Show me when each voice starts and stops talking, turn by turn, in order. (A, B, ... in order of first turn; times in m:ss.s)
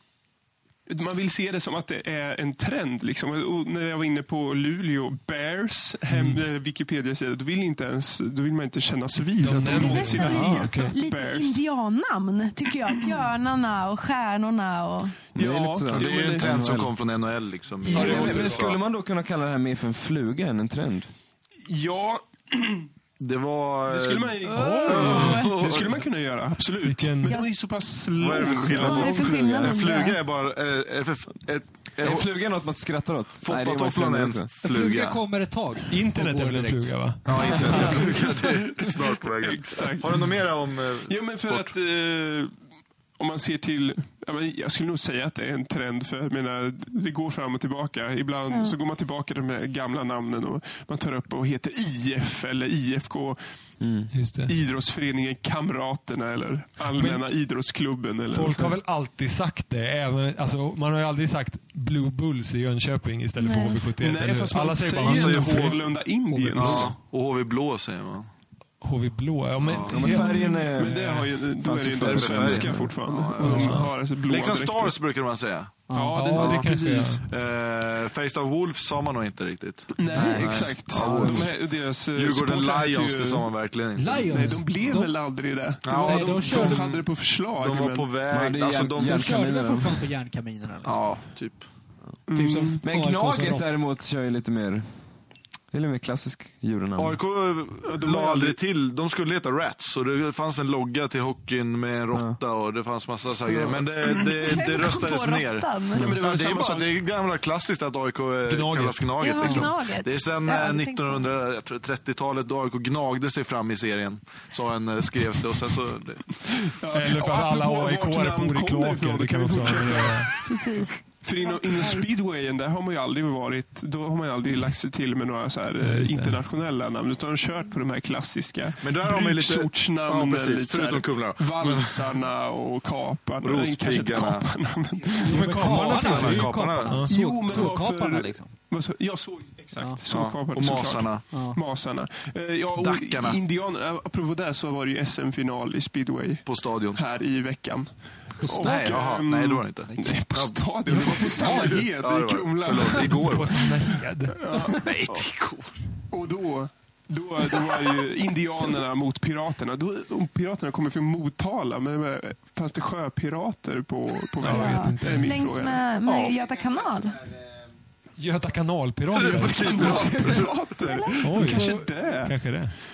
0:00.8-0:11.6 A
0:06.1-0:06.4 B
0:09.4-0:11.0 B
0:09.7-0:15.2 C
0:10.3-0:10.7 D
0:15.3-0:16.7 A
0:15.4-0:16.9 D
0:15.9-0:18.8 E
0:17.8-0:18.6 A
0:17.8-0:21.1 D
0:21.6-0:22.9 A
0:23.2-0:25.9 E
0:23.9-0:29.3 A
0:24.4-0:25.6 C
0:26.8-0:27.4 B
0:28.2-0:32.3 E
0:28.7-0:30.2 C
0:29.3-0:29.7 D
0:32.0-0:34.5 D
0:33.4-0:35.2 E
0:34.6-0:38.3 F
0:35.9-0:37.9 B
0:37.2-0:41.7 E
0:37.4-0:40.4 A
0:41.0-0:42.5 A
0:43.2-0:53.4 A
0:48.5-0:48.8 C
0:53.8-0:54.1 D
0:54.1-0:54.5 B
0:54.4-0:58.8 A
0:57.0-0:57.3 B
0:58.3-1:05.9 B
1:03.4-1:03.9 C
1:04.0-1:06.9 A
1:05.0-1:06.0 E
1:06.3-1:06.9 F
1:06.6-1:08.3 E
1:08.8-1:11.3 B
1:09.6-1:10.0 E
1:09.9-1:12.9 D
1:10.3-1:10.6 C
1:10.7-1:15.0 A
1:12.0-1:16.7 E
1:13.4-1:13.9 B
1:15.9-1:16.2 F
1:15.9-1:17.2 A
1:16.1-1:17.2 B
1:17.2-1:21.6 E
1:19.9-1:23.5 A
1:20.9-1:21.5 D
1:22.1-1:24.3 E
1:24.0-1:25.1 F
1:24.3-1:28.1 A
1:25.8-1:27.0 E
1:25.9-1:26.9 F
1:27.6-1:29.3 E
1:28.3-1:30.1 D
1:29.0-1:31.0 F
1:30.8-1:31.6 E
1:32.3-1:32.8 A
1:32.3-1:33.7 F
1:32.8-1:34.9 D
1:35.7-1:37.2 D
1:37.0-1:56.4 E
1:37.8-1:38.6 A
1:44.0-1:46.2 C
1:45.9-1:46.9 A
1:48.5-1:49.6 B
1:49.2-1:51.3 C
1:56.5-2:16.3 A
1:56.9-2:00.4 B
2:00.4-2:02.1 C
2:05.8-2:06.4 B
2:08.8-2:12.1 E
2:13.4-2:14.5 E
2:15.2-2:18.5 F
2:15.2-2:17.1 B
2:15.9-2:17.6 E
2:17.1-2:35.1 A
2:20.1-2:21.4 E
2:21.3-2:21.6 F
2:22.8-2:23.4 E
2:26.4-2:27.0 E
2:28.4-2:28.8 F
2:28.6-2:33.7 E
2:29.9-2:30.1 F
2:33.2-2:34.8 B
2:34.8-2:35.7 E
2:36.1-2:45.9 A
2:44.4-2:45.4 B
2:44.4-2:47.2 C
2:48.2-2:49.7 B
2:49.1-2:50.8 E
2:49.2-2:52.5 A
2:50.8-2:51.2 C
2:51.2-2:52.8 B
2:51.4-2:51.8 F